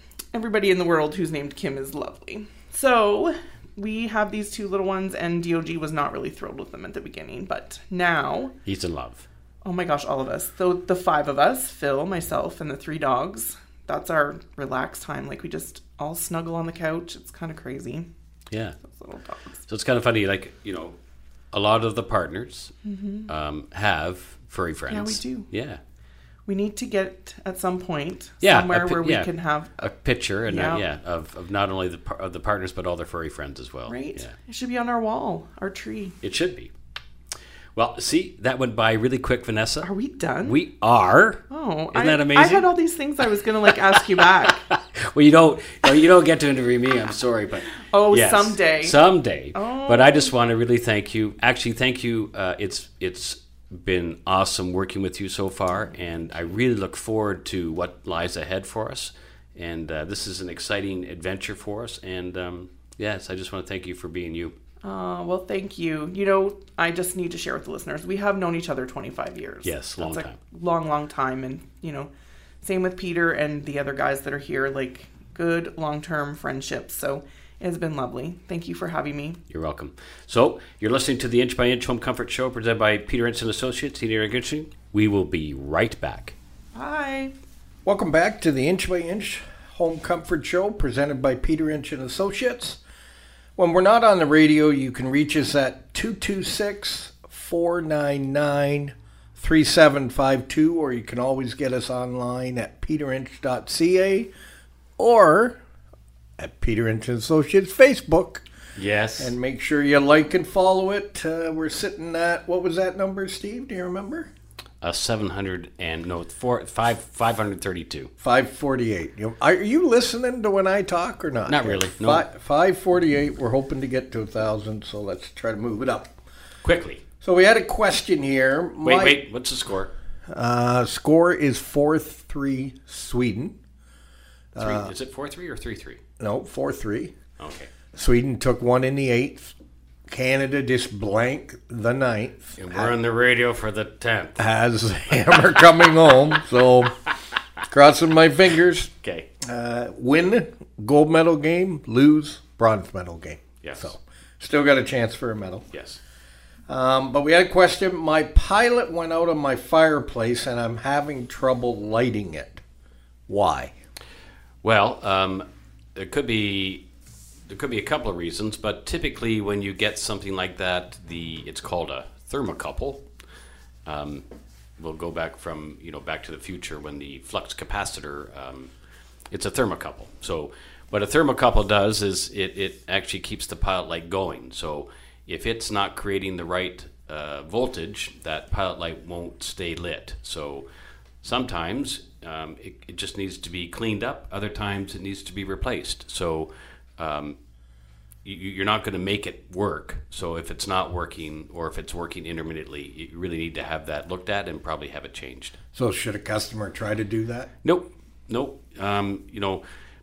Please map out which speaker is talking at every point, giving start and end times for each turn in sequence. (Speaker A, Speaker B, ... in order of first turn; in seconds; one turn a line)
Speaker A: 0.3-8.5
Speaker B: 8.7-9.2
Speaker A: 9.6-18.1
Speaker B: 18.5-18.8
Speaker A: 18.9-19.6
Speaker B: 19.6-21.0
Speaker B: 21.5-22.7
Speaker A: 22.8-23.3
Speaker B: 23.3-25.8
Speaker A: 24.9-25.5
Speaker A: 26.5-29.9
Speaker B: 28.4-29.3
Speaker B: 29.8-34.3
Speaker A: 30.4-30.8
Speaker A: 33.9-36.2
Speaker B: 36.2-36.7
Speaker B: 37.7-39.9
Speaker A: 39.8-40.6
Speaker B: 40.4-42.7
Speaker A: 41.5-44.7
Speaker B: 43.2-64.5
Speaker A: 47.9-49.0
Speaker A: 49.5-50.3
Speaker A: 64.8-72.1
Speaker B: 69.6-70.4
Speaker A: 72.6-79.4
Speaker B: 79.5-86.3
Speaker A: 86.7-87.3
Speaker C: 87.8-92.8
Speaker C: 93.6-104.3
Speaker C: 105.0-105.6
Speaker C: 106.4-108.4
Speaker B: 108.8-109.3
Speaker C: 109.2-114.3
Speaker B: 114.8-118.1
Speaker C: 118.2-126.1
Speaker B: 121.5-122.2
Speaker B: 126.6-127.0
Speaker C: 127.2-129.2
Speaker B: 128.8-129.9
Speaker C: 130.3-133.6
Speaker C: 134.5-134.9
Speaker B: 134.6-136.0
Speaker C: 136.2-137.2
Speaker B: 137.4-137.7
Speaker C: 137.9-139.5
Speaker C: 140.1-142.9
Speaker B: 142.6-144.4
Speaker C: 144.4-147.0
Speaker C: 147.6-155.7
Speaker B: 149.0-149.3
Speaker B: 153.6-153.9
Speaker B: 155.7-156.0
Speaker C: 156.7-162.6
Speaker C: 163.3-163.7
Speaker B: 164.6-166.8
Speaker B: 167.5-173.1
Speaker B: 173.8-174.2
Speaker B: 174.8-178.7
Speaker B: 179.3-190.7
Speaker B: 191.2-197.4
Speaker B: 198.2-205.6
Speaker C: 205.7-207.5
Speaker B: 207.6-209.6